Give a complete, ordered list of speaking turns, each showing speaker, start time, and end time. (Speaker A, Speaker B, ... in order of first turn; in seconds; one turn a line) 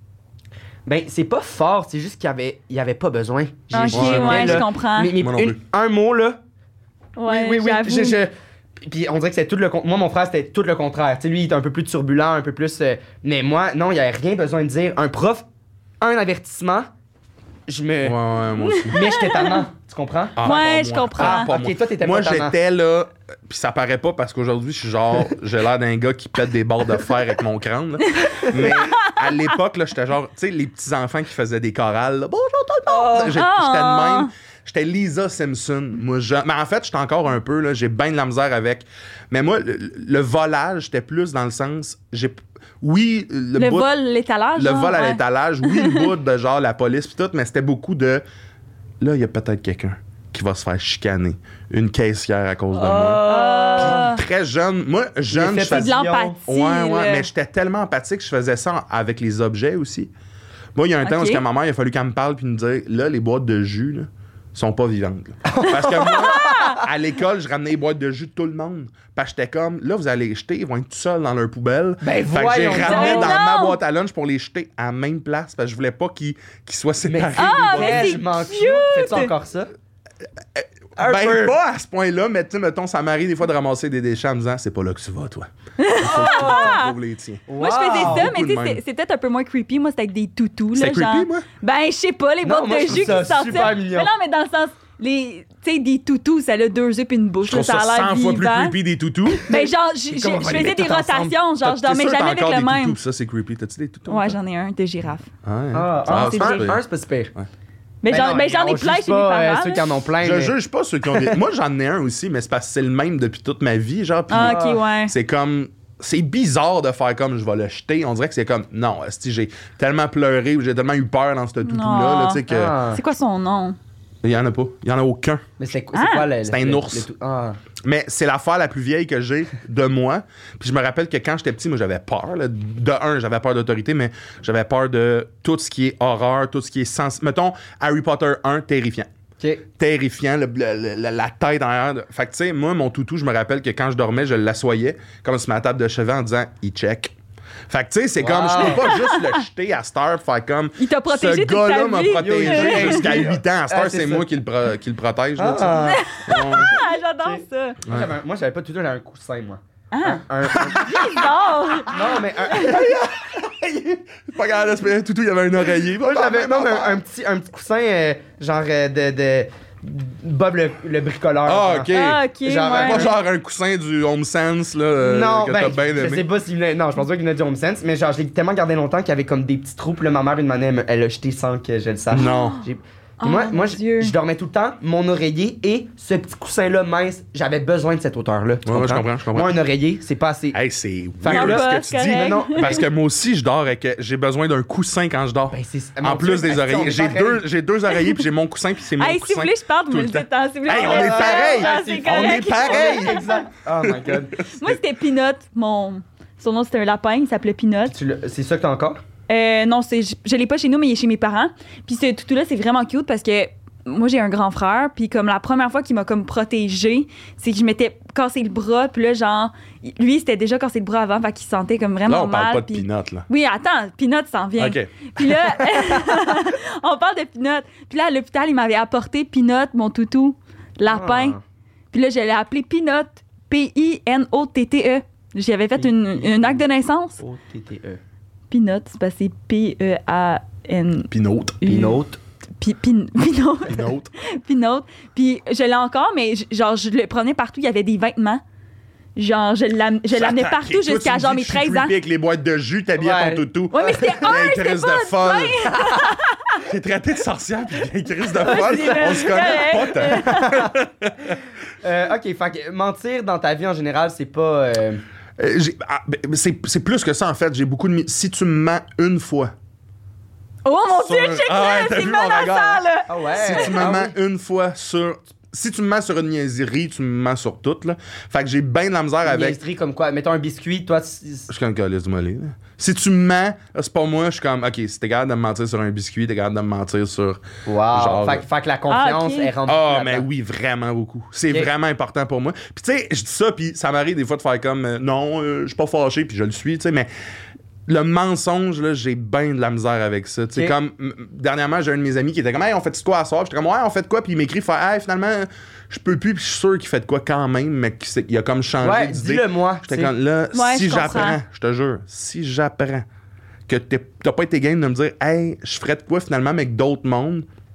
Speaker A: 0.8-6.4
Speaker B: 3.7-5.1
Speaker C: 3.9-5.6
Speaker B: 7.2-8.2
Speaker A: 7.2-8.3
Speaker A: 8.8-15.4
Speaker A: 16.0-16.9
Speaker A: 17.7-18.2
Speaker C: 18.0-19.0
Speaker B: 18.6-19.5
Speaker A: 18.9-20.5
Speaker C: 20.4-43.9
Speaker B: 20.4-21.5
Speaker A: 21.2-22.6
Speaker B: 28.1-29.4
Speaker B: 32.9-34.3
Speaker B: 43.6-46.1
Speaker C: 44.5-48.2
Speaker C: 49.0-53.2
Speaker B: 52.7-54.2
Speaker A: 53.2-54.1
Speaker C: 53.8-55.9
Speaker A: 55.3-56.4
Speaker B: 55.7-57.3
Speaker C: 56.5-60.1
Speaker C: 60.7-78.2
Speaker B: 61.0-61.4
Speaker A: 65.5-66.8
Speaker B: 66.0-66.8
Speaker A: 72.0-73.4
Speaker B: 72.7-73.8
Speaker A: 77.1-79.7
Speaker B: 77.3-79.3
Speaker C: 80.5-88.8
Speaker A: 81.0-81.6
Speaker B: 85.8-87.0
Speaker A: 86.0-86.8
Speaker A: 87.5-88.3
Speaker B: 87.6-98.8
Speaker C: 90.7-91.5
Speaker A: 92.4-94.1
Speaker C: 97.4-99.4
Speaker B: 99.3-103.0
Speaker A: 99.5-101.3
Speaker C: 101.6-104.4
Speaker B: 104.1-105.3
Speaker C: 105.4-106.8
Speaker A: 105.7-107.3
Speaker B: 106.1-106.8
Speaker B: 108.0-110.0
Speaker A: 108.1-110.5
Speaker C: 110.2-122.8
Speaker A: 111.1-111.4
Speaker B: 114.3-115.1
Speaker A: 114.4-114.8
Speaker B: 121.6-123.8
Speaker A: 122.5-123.0
Speaker C: 124.2-125.4
Speaker A: 125.6-127.6
Speaker B: 125.9-126.3
Speaker C: 126.4-127.1
Speaker C: 127.8-139.1
Speaker A: 139.4-139.6
Speaker C: 139.8-147.1
Speaker C: 147.7-156.8
Speaker A: 148.2-149.0
Speaker B: 148.6-149.4
Speaker B: 150.8-153.2
Speaker A: 152.2-154.3
Speaker A: 155.4-161.0
Speaker B: 155.9-157.8
Speaker C: 157.8-158.1
Speaker B: 159.9-160.2
Speaker C: 160.5-161.3
Speaker B: 160.7-162.8
Speaker A: 161.8-163.1
Speaker C: 162.7-167.0
Speaker A: 166.0-173.1
Speaker C: 171.4-176.3
Speaker B: 171.9-173.1
Speaker A: 175.0-190.6
Speaker C: 182.1-182.6
Speaker B: 183.2-184.1
Speaker C: 188.7-189.6
Speaker C: 190.5-203.3
Speaker A: 191.2-192.8
Speaker B: 191.3-192.8
Speaker A: 195.5-197.4
Speaker B: 197.9-198.2
Speaker B: 199.0-203.4
Speaker A: 200.7-204.4
Speaker C: 203.8-204.7
Speaker B: 204.4-207.9
Speaker A: 207.9-209.0
Speaker B: 209.3-231.4
Speaker C: 222.1-223.2
Speaker C: 224.6-224.9
Speaker A: 230.9-231.4
Speaker B: 231.9-237.2
Speaker A: 235.8-236.6
Speaker A: 237.2-238.0
Speaker B: 238.5-241.1
Speaker C: 241.1-241.6
Speaker B: 241.6-242.0
Speaker A: 241.6-242.2
Speaker B: 242.6-248.4
Speaker C: 243.7-244.1
Speaker B: 249.2-251.9
Speaker C: 250.1-255.8
Speaker A: 253.0-254.3
Speaker B: 253.7-256.6
Speaker A: 255.7-256.0
Speaker C: 256.6-261.4
Speaker B: 258.4-260.7
Speaker A: 258.4-260.7
Speaker A: 261.8-265.0
Speaker C: 265.4-269.5
Speaker B: 270.6-273.9
Speaker C: 270.9-272.9
Speaker A: 273.1-274.1
Speaker C: 273.4-279.6
Speaker A: 279.2-281.5
Speaker C: 281.5-288.4
Speaker A: 287.6-290.2
Speaker B: 288.9-289.5
Speaker C: 289.7-297.1
Speaker C: 297.9-313.0
Speaker A: 308.8-310.1
Speaker B: 310.5-311.4
Speaker C: 313.7-317.5